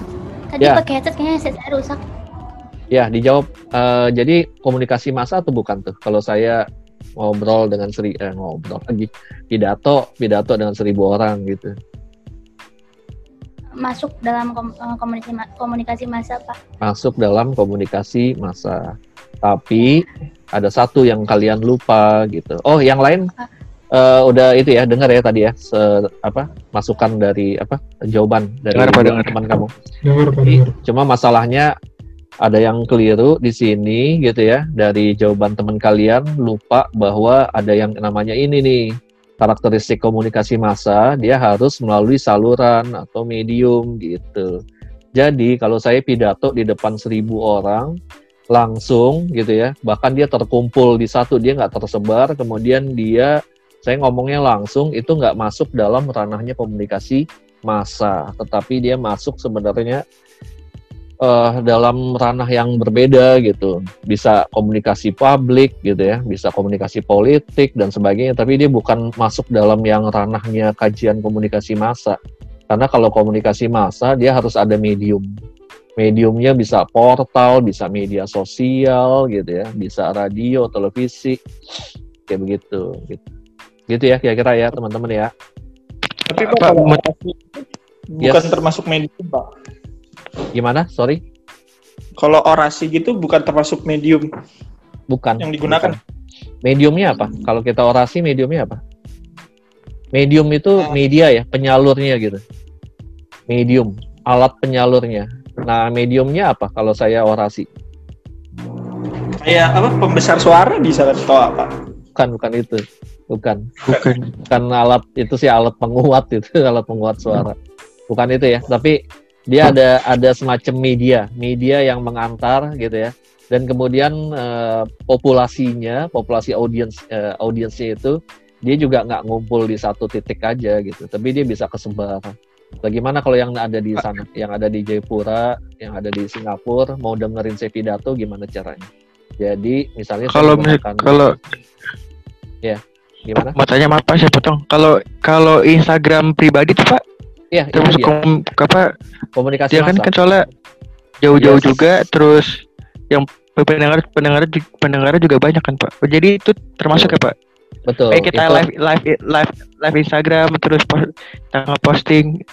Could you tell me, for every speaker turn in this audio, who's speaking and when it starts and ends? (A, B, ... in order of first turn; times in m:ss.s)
0:00.5-0:02.0 A
0:02.9-0:06.6 B
0:07.2-0:11.7 B
0:13.8-0:16.6 A
0:16.8-0:23.3 B
0:23.9-0:29.7 B
0:28.7-0:29.6 C
0:30.2-0:31.8 B
0:32.4-0:44.6 B
0:45.2-0:48.0 B
0:48.5-1:00.0 B
1:01.2-1:12.2 B
1:12.7-1:15.3 B
1:16.0-1:21.4 B
1:22.3-1:23.2 B
1:23.9-1:25.3 B
1:26.3-1:27.6 D
1:26.3-1:27.0 C
1:28.2-1:29.5 D
1:28.2-1:28.6 B
1:30.5-1:31.2 B
1:32.2-1:34.3 D
1:35.1-1:36.0 B
1:35.4-1:36.0 D
1:36.6-1:38.8 B
1:40.1-1:42.4 B
1:43.5-1:47.7 B
1:49.4-1:51.7 D
1:52.2-1:53.7 B
1:53.8-1:54.3 C
1:54.5-1:57.6 B
1:58.1-2:18.9 B
2:19.4-2:21.3 B
2:20.3-2:21.3 C
2:22.6-2:23.6 B
2:23.6-2:27.0 C
2:27.5-2:28.2 B
2:27.7-2:28.9 C
2:29.4-2:30.1 B
2:29.7-2:30.5 C
2:31.2-2:37.4 C
2:31.3-2:31.7 B
2:37.9-2:38.6 B
2:38.1-2:42.4 C